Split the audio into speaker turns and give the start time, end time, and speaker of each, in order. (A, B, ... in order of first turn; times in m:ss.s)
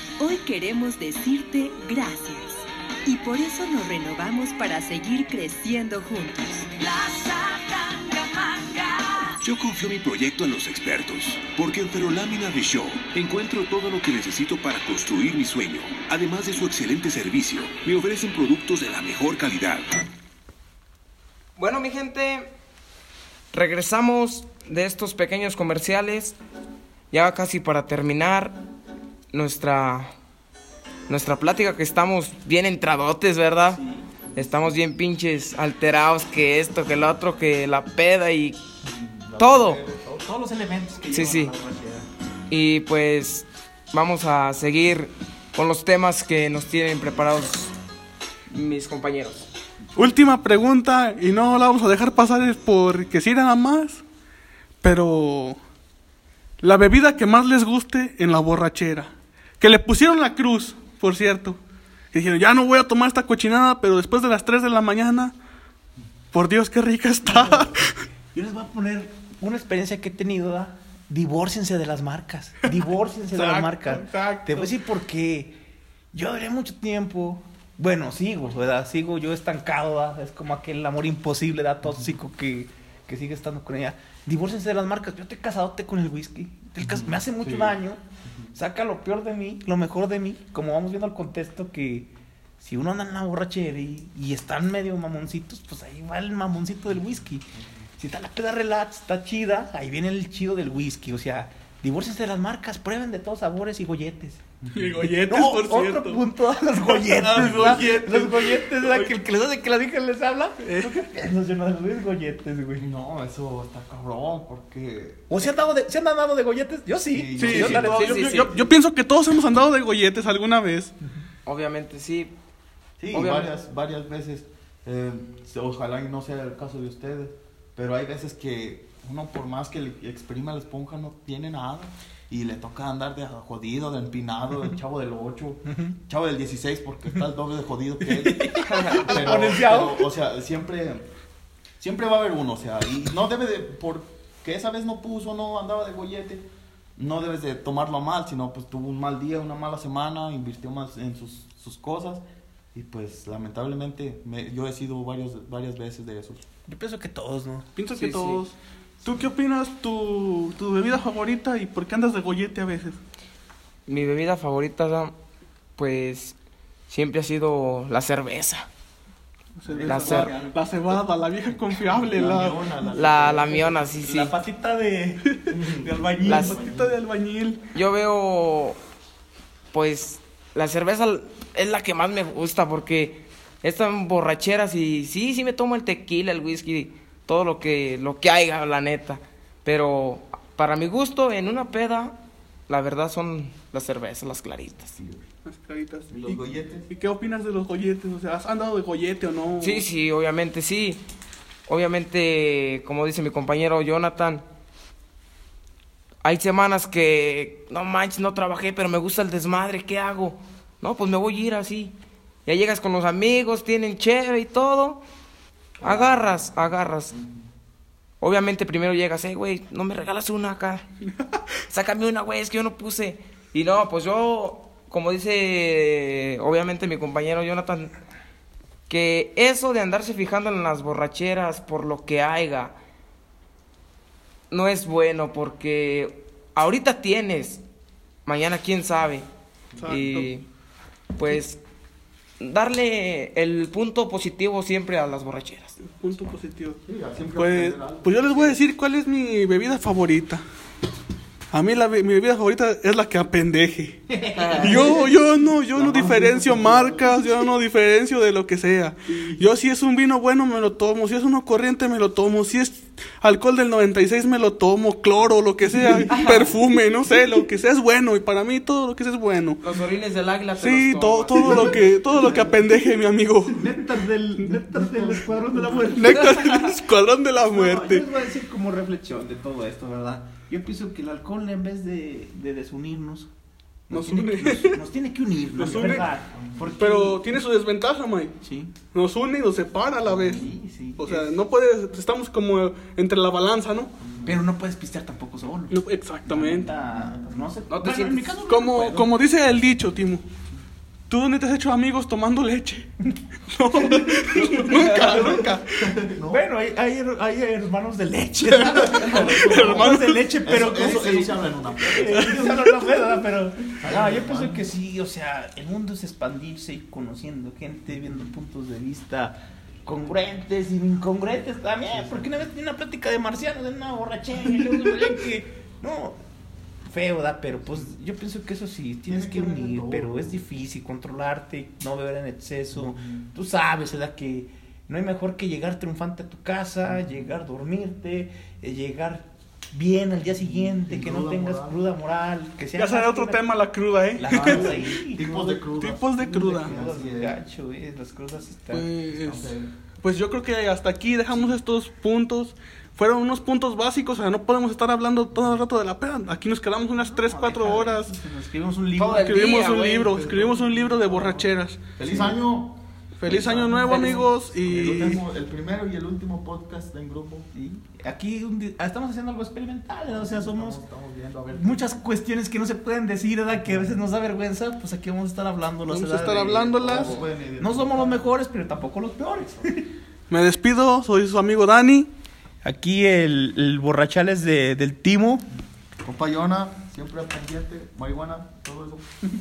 0:00.2-0:09.4 A
0:09.4-0:20.0 B
0:21.6-0:22.5 C
0:23.5-0:26.4 C
0:27.1-0:28.6 C
0:29.3-0:30.1 C
0:31.1-0:33.8 C
0:33.7-0:34.1 D
0:34.4-0:38.6 C
0:38.8-0:40.3 E
0:39.4-0:39.8 C
0:40.2-0:42.1 D
0:41.1-0:41.5 C
0:42.5-0:47.7 C
0:48.5-0:49.5 C
0:50.0-0:54.0 F
0:54.8-0:55.6 F
0:56.6-1:01.6 F
1:02.1-1:05.3 F
1:06.3-1:08.0 F
1:07.3-1:07.7 D
1:08.3-1:15.6 D
1:13.3-1:14.7 F
1:16.1-1:28.0 D
1:26.8-1:28.5 E
1:28.6-1:37.4 D
1:38.0-1:44.4 D
1:44.6-1:45.0 E
1:44.7-1:46.2 F
1:45.0-1:52.9 D
1:46.8-1:49.2 F
1:50.6-1:50.9 F
1:52.8-1:55.5 E
1:55.3-1:58.3 D
1:57.1-1:58.0 E
1:57.4-2:00.9 F
1:57.6-1:58.6 C
2:01.5-2:02.3 C
2:03.0-2:21.1 E
2:03.1-2:03.5 C
2:18.0-2:20.1 D
2:21.8-2:36.4 E
2:36.7-2:37.7 D
2:37.8-2:43.0 F
2:37.9-2:38.4 C
2:43.9-2:45.1 C
2:45.8-2:46.4 C
2:46.9-2:48.7 C
2:49.6-2:52.6 F
2:49.8-2:50.5 D
2:49.8-2:50.3 C
2:51.9-2:53.9 E
2:52.9-2:54.4 C
2:54.0-2:56.6 D
2:55.5-2:57.0 E
2:56.3-2:56.6 C
2:56.3-2:57.6 F
2:57.7-2:58.8 C
2:59.7-3:12.2 C
3:12.7-3:14.9 C
3:14.9-3:15.2 E
3:15.5-3:19.8 F
3:16.1-3:16.9 E
3:19.6-3:21.0 C
3:21.7-3:24.4 C
3:26.2-3:32.0 C
3:32.5-3:35.0 C
3:35.8-3:37.1 C
3:35.8-3:36.1 E
3:38.2-3:40.8 C
3:41.7-3:47.9 C
3:48.9-3:52.8 C
3:54.5-3:57.6 C
3:58.3-3:59.3 C
3:59.8-4:00.3 F
3:59.9-4:00.5 C
4:01.2-4:01.6 C
4:02.4-4:05.8 C
4:05.8-4:06.8 F
4:06.9-4:08.6 E
4:07.4-4:10.4 F
4:11.5-4:14.0 F
4:14.1-4:15.0 D
4:14.4-4:14.7 C
4:14.6-4:29.6 F
4:15.8-4:17.1 E
4:15.9-4:16.6 D
4:25.8-4:26.5 D
4:26.1-4:26.5 C
4:29.6-4:31.7 C
4:30.6-4:33.7 F
4:32.2-4:32.5 D
4:33.6-4:36.8 D
4:34.9-4:36.0 E
4:35.6-4:38.1 F
4:37.4-4:43.3 D
4:43.9-4:47.4 D
4:43.9-4:44.8 F
4:45.6-4:46.1 F
4:46.3-4:46.7 E
4:46.8-4:48.3 F
4:48.4-4:48.7 D
4:48.9-4:50.5 F
4:50.1-4:51.3 D
4:51.0-4:53.9 F
4:54.0-4:54.4 E
4:54.2-4:59.1 D
4:55.7-4:56.7 F
4:56.9-4:57.2 E
4:57.7-4:58.3 C
4:58.5-5:00.3 F
5:01.1-5:02.9 F
5:03.5-5:05.9 F
5:03.8-5:05.5 D
5:05.0-5:06.4 E
5:06.2-5:26.2 D
5:08.5-5:12.7 E
5:09.2-5:10.9 F
5:12.2-5:12.6 F
5:13.8-5:14.7 E
5:21.9-5:22.4 E
5:26.9-5:43.4 D
5:29.1-5:30.4 E
5:32.7-5:33.2 E
5:40.4-5:41.9 E
5:42.8-5:45.0 F
5:44.2-5:45.7 D
5:44.3-5:47.4 E
5:45.8-5:46.7 F
5:46.3-5:48.9 D
5:48.7-5:58.1 F
5:49.1-5:49.7 E
5:57.1-5:59.5 D
5:59.0-6:00.3 C
5:59.2-6:01.8 F
6:00.3-6:01.4 D
6:02.0-6:07.5 E
6:03.2-6:05.2 F
6:03.8-6:04.2 D
6:07.5-6:10.8 D
6:10.0-6:11.9 E
6:11.5-6:19.9 D
6:15.9-6:17.1 F
6:16.8-6:18.3 E
6:20.3-6:22.1 F
6:22.6-6:25.4 D
6:26.0-6:29.0 E